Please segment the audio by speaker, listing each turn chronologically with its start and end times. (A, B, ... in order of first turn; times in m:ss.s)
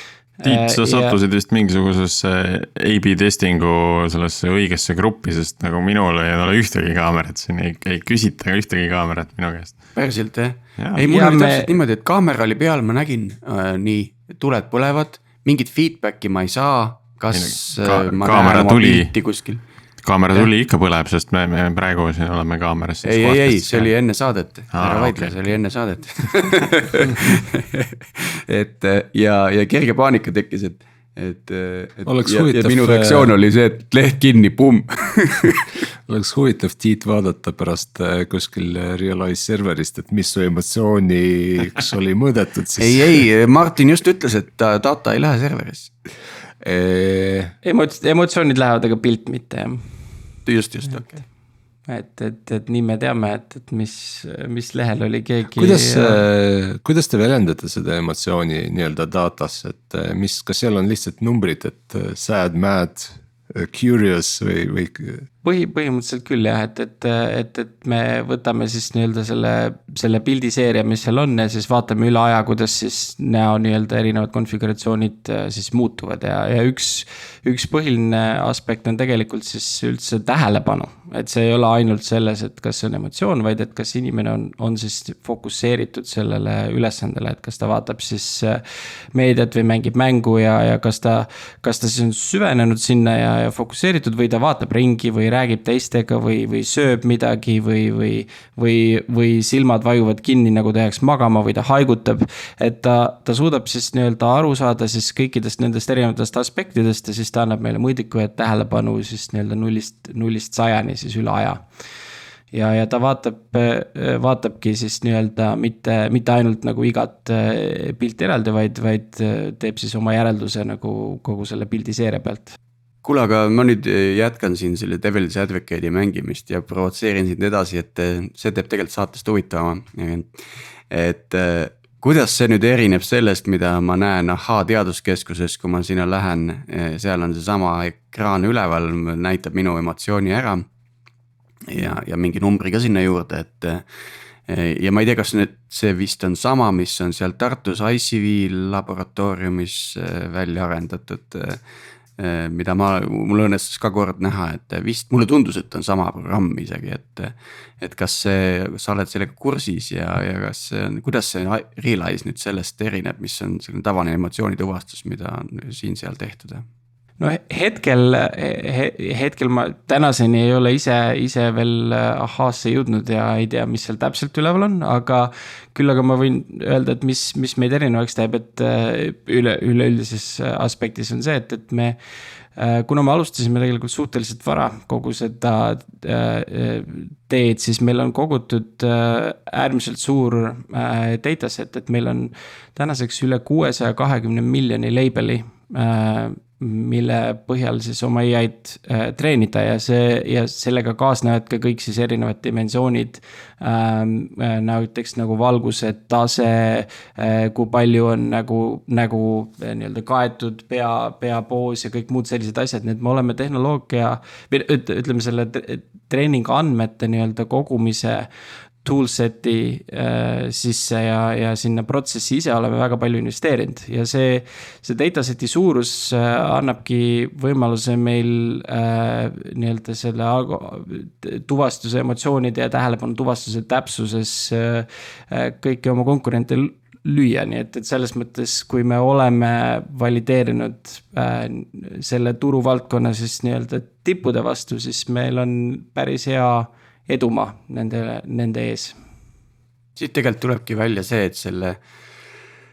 0:00.4-0:01.2 A
0:00.4-0:09.9 B
0:10.0-0:19.6 C
0:10.8-0:11.1 B
0:11.0-0:11.7 A
0:17.3-0:19.1 B
0:20.0-0:23.9 B
0:23.0-0:35.8 C
0:24.7-0:25.5 B
0:32.0-0:33.3 D
0:36.1-0:43.2 D
0:42.8-0:45.9 C
0:46.6-0:47.5 D
0:47.6-0:49.9 A
0:50.5-0:51.2 C
0:51.9-0:56.2 A
0:55.6-1:05.2 D
1:05.4-1:28.6 A
1:29.1-1:51.6 A
1:52.5-2:02.6 A
2:03.0-2:10.3 C
2:10.9-2:20.7 C
2:21.7-2:23.9 C
2:24.5-2:31.6 C
2:32.2-2:46.6 C
2:47.2-3:02.0 A
3:02.6-3:38.3 A
3:38.8-4:09.0 A
4:10.0-4:11.8 C